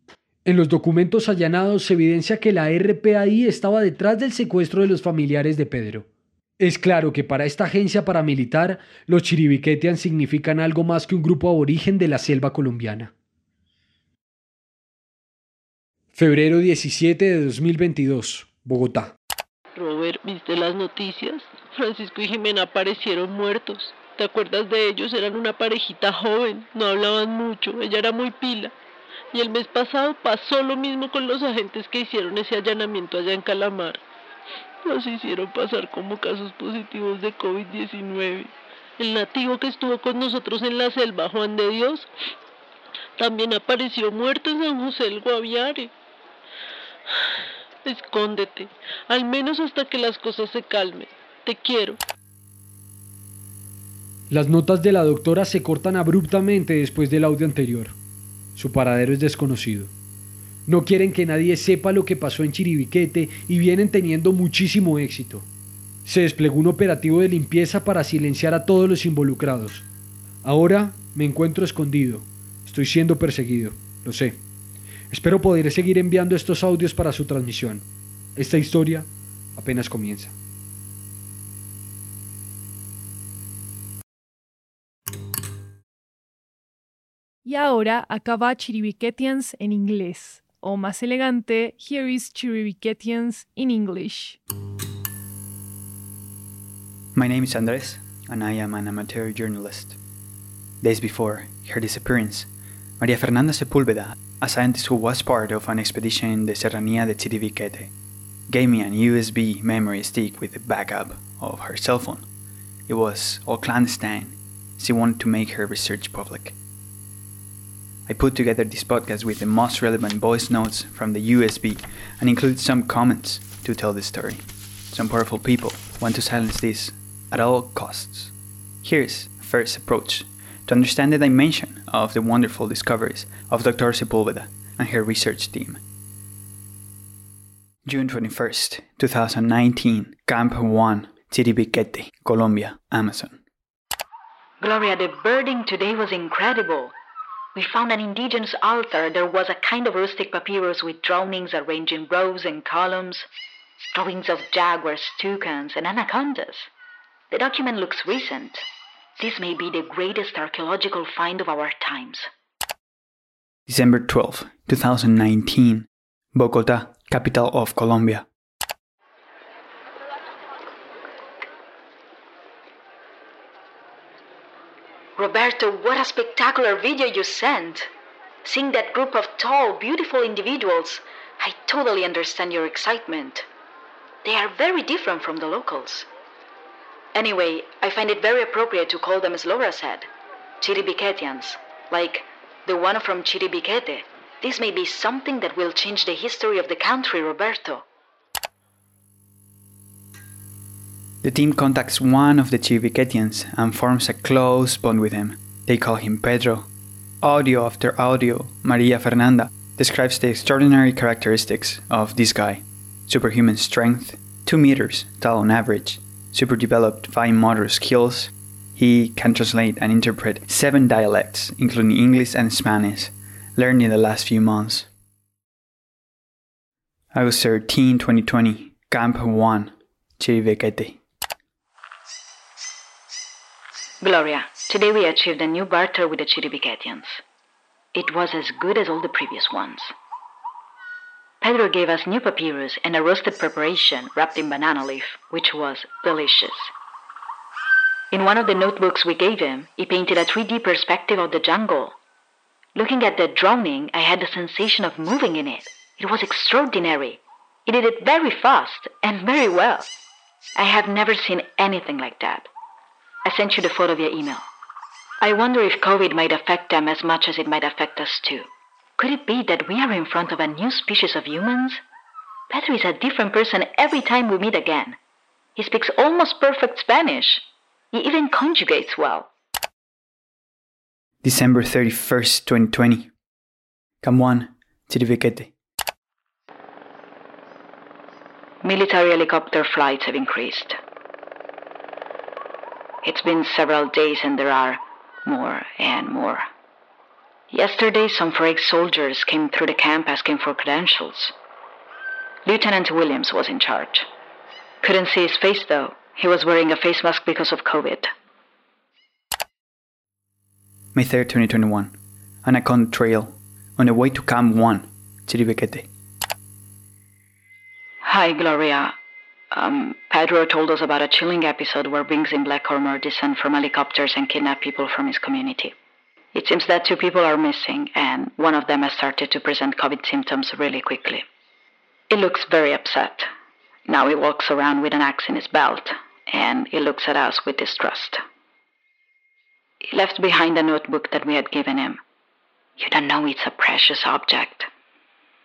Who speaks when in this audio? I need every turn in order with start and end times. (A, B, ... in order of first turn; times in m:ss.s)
0:00.4-0:06.0 A
0:06.6-0:13.1 A
0:16.1-0:19.1 A
0:19.7-0:28.7 B
0:29.3-0:34.0 B
0:34.8-0:42.1 B
0:43.2-0:45.9 B
0:47.8-0:52.0 B
0:54.3-0:58.0 A
0:58.6-0:59.9 A
1:00.7-1:05.5 A
1:06.0-1:09.8 A
1:10.4-1:14.4 A
1:15.1-1:20.3 A
1:27.4-1:34.4 C
1:37.1-1:40.0 D
1:40.8-1:47.9 D
1:48.5-1:52.2 D
1:52.9-1:56.6 D
1:58.1-2:15.8 D
2:17.8-2:23.4 D
2:24.6-2:26.9 E
2:27.5-2:33.3 E
2:33.9-2:36.7 E
2:37.3-2:38.6 E
2:39.2-2:42.3 E
2:43.7-2:48.2 D
2:55.2-2:57.9 E
2:58.4-3:03.4 E
3:04.2-3:06.1 E
3:07.1-3:10.1 E
3:10.6-3:17.8 E
3:21.2-3:26.7 D
3:27.2-3:44.9 D
3:47.1-3:51.0 D
3:54.0-3:57.2 E
3:57.9-3:59.9 E
4:01.4-4:06.7 E
4:08.1-4:12.0 E
4:12.8-4:19.9 E
4:20.6-4:22.5 E
4:23.2-4:24.4 E
4:25.2-4:31.8 E
4:32.5-4:35.0 E
4:35.6-4:39.3 E
4:41.2-4:43.1 D
4:44.0-4:45.5 D
4:48.6-4:50.8 E
4:53.0-4:56.4 E
4:57.5-5:01.3 E
5:02.4-5:04.1 E
5:04.8-5:08.1 E
5:10.9-5:15.9 D
5:18.0-5:18.9 E
5:19.5-5:25.7 E
5:26.3-5:31.2 E
5:32.1-5:33.3 E
5:33.9-5:38.2 E
5:39.9-5:42.0 E
5:42.8-5:44.7 E